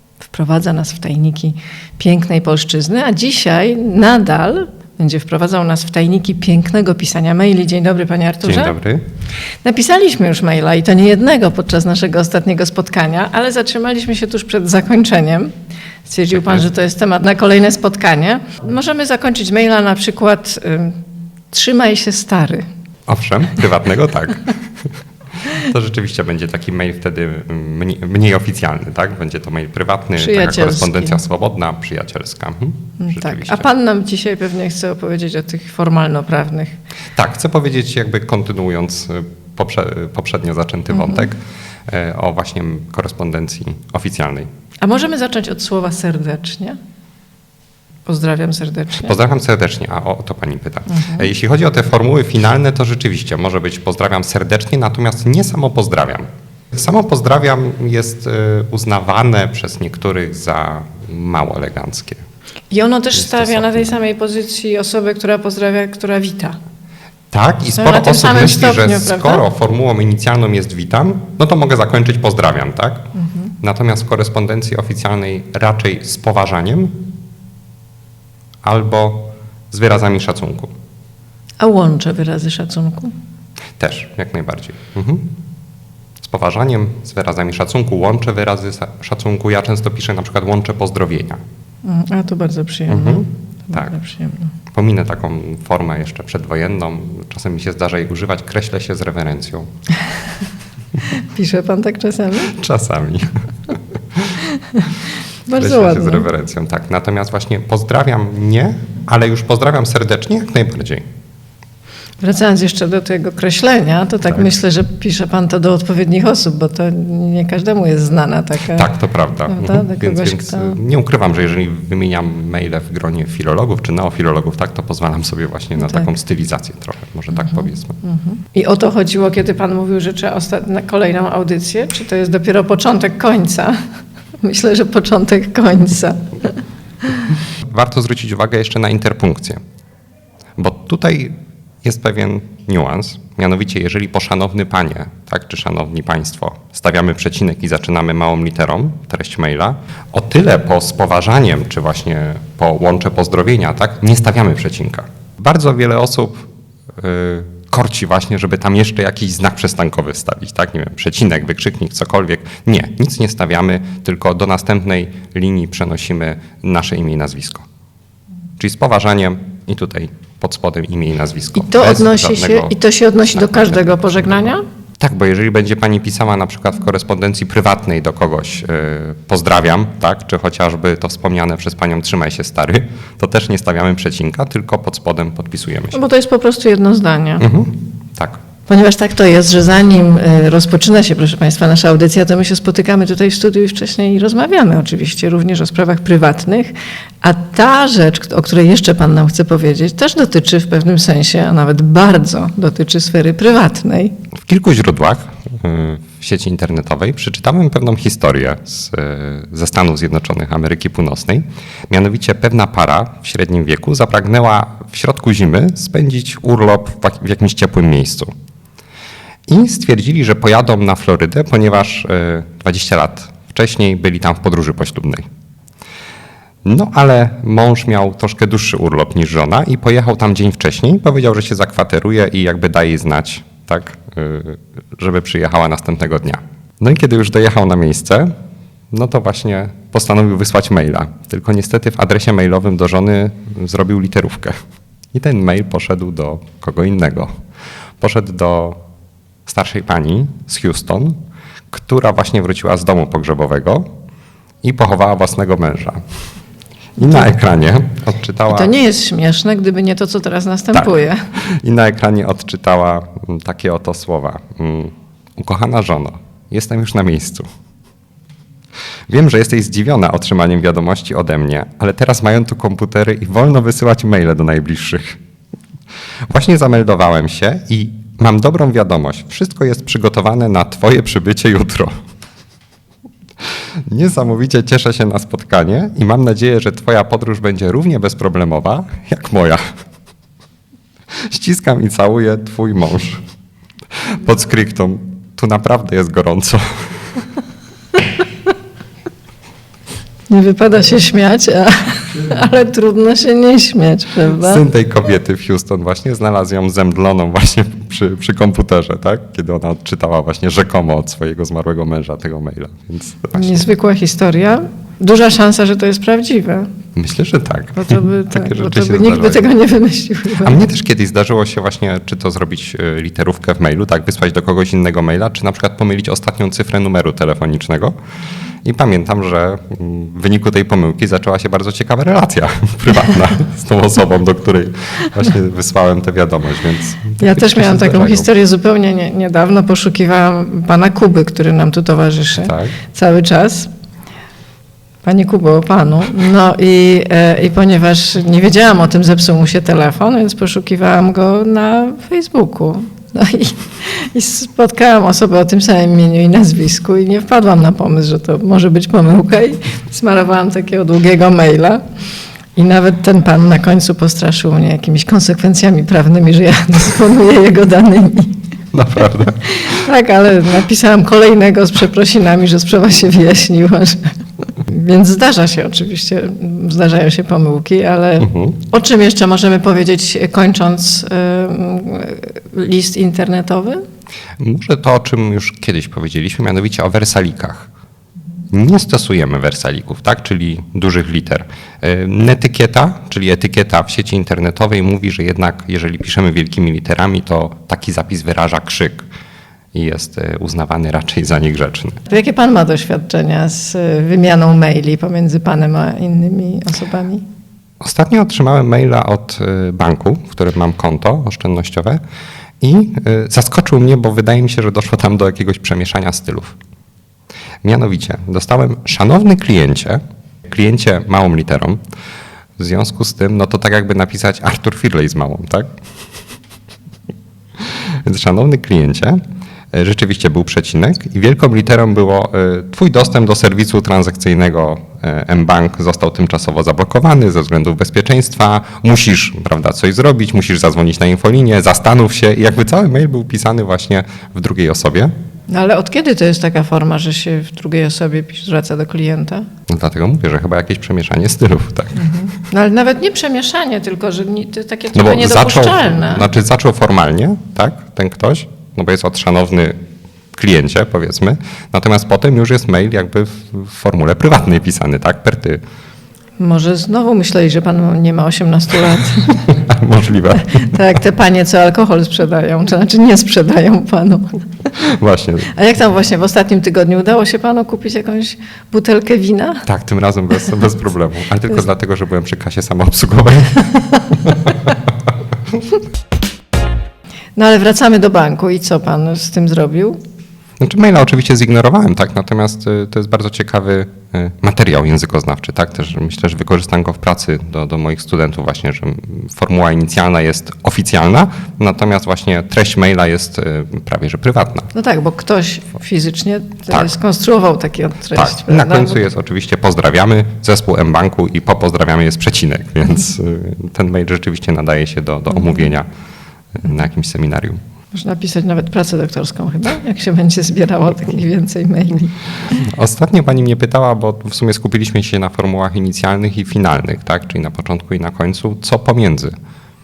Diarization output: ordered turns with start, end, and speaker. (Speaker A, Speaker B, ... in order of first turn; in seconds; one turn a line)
Speaker A: 0.3-8.8
Speaker B: 8.4-9.0
Speaker A: 9.6-15.5
Speaker A: 16.1-21.0
Speaker B: 16.3-16.7
Speaker A: 21.5-22.6
Speaker B: 23.1-24.6
Speaker B: 25.5-33.7
Speaker A: 30.2-31.2
Speaker A: 33.0-36.8
Speaker B: 37.2-44.5
Speaker A: 40.9-41.3
Speaker A: 44.8-46.8
Speaker A: 48.1-49.1
Speaker B: 49.0-62.2
Speaker A: 50.9-51.3
Speaker A: 62.7-66.6
Speaker B: 63.1-63.9
Speaker B: 67.3-73.1
Speaker A: 67.7-69.4
Speaker A: 73.2-73.5
Speaker B: 73.6-77.0
Speaker B: 78.6-80.7
Speaker A: 81.6-83.1
Speaker B: 83.8-85.3
Speaker B: 86.2-91.4
Speaker A: 91.8-94.5
Speaker B: 92.9-93.9
Speaker B: 94.7-99.7
Speaker A: 101.1-102.5
Speaker B: 102.5-104.4
Speaker A: 105.5-106.3
Speaker B: 105.6-111.0
Speaker A: 112.2-118.9
Speaker B: 118.7-128.0
Speaker A: 119.5-120.8
Speaker A: 125.8-126.1
Speaker A: 127.5-133.8
Speaker A: 134.4-136.6
Speaker B: 137.6-139.6
Speaker B: 140.6-156.5
Speaker B: 157.0-167.7
Speaker B: 168.6-186.0
Speaker A: 171.6-174.6
Speaker A: 185.9-187.5
Speaker B: 187.4-188.4
Speaker A: 188.7-204.2
Speaker B: 204.4-218.3
Speaker B: 219.5-225.2
Speaker B: 226.7-238.3
Speaker B: 238.9-244.6
Speaker B: 245.1-247.3
Speaker B: 248.0-248.8
Speaker B: 249.5-251.2
Speaker B: 251.7-253.8
Speaker B: 254.6-256.0
Speaker B: 257.0-258.7
Speaker A: 257.0-257.3
Speaker A: 258.5-261.2
Speaker B: 260.8-267.4
Speaker B: 269.1-275.2
Speaker B: 276.3-281.9
Speaker B: 283.9-289.6
Speaker B: 291.3-293.2
Speaker B: 294.1-296.6
Speaker A: 300.3-304.6
Speaker B: 304.4-313.6
Speaker A: 313.3-316.7
Speaker B: 317.0-319.5
Speaker A: 317.8-320.6
Speaker B: 320.4-328.0
Speaker B: 328.6-338.3
Speaker A: 337.2-343.7
Speaker B: 342.4-342.8
Speaker A: 345.0-361.8
Speaker A: 362.6-368.4
Speaker B: 368.7-369.7
Speaker A: 369.5-383.8
Speaker B: 378.2-378.6
Speaker B: 384.4-387.7
Speaker B: 388.5-399.1
Speaker B: 399.7-402.0
Speaker A: 402.1-407.2
Speaker B: 407.8-412.0
Speaker B: 412.6-416.6
Speaker B: 417.6-421.8
Speaker B: 422.6-425.7
Speaker B: 427.6-429.2
Speaker B: 429.7-445.1
Speaker A: 445.5-449.5
Speaker B: 449.7-452.1
Speaker A: 452.0-456.3
Speaker B: 454.9-459.7
Speaker B: 460.4-465.6
Speaker A: 466.4-469.6
Speaker B: 469.5-470.7
Speaker A: 470.4-474.4
Speaker B: 474.8-475.5
Speaker A: 475.5-479.6
Speaker B: 479.7-484.8
Speaker A: 487.4-490.0
Speaker B: 490.6-504.7
Speaker A: 504.7-509.0
Speaker B: 508.1-515.9
Speaker B: 516.5-517.6
Speaker A: 517.9-522.1
Speaker B: 522.5-529.3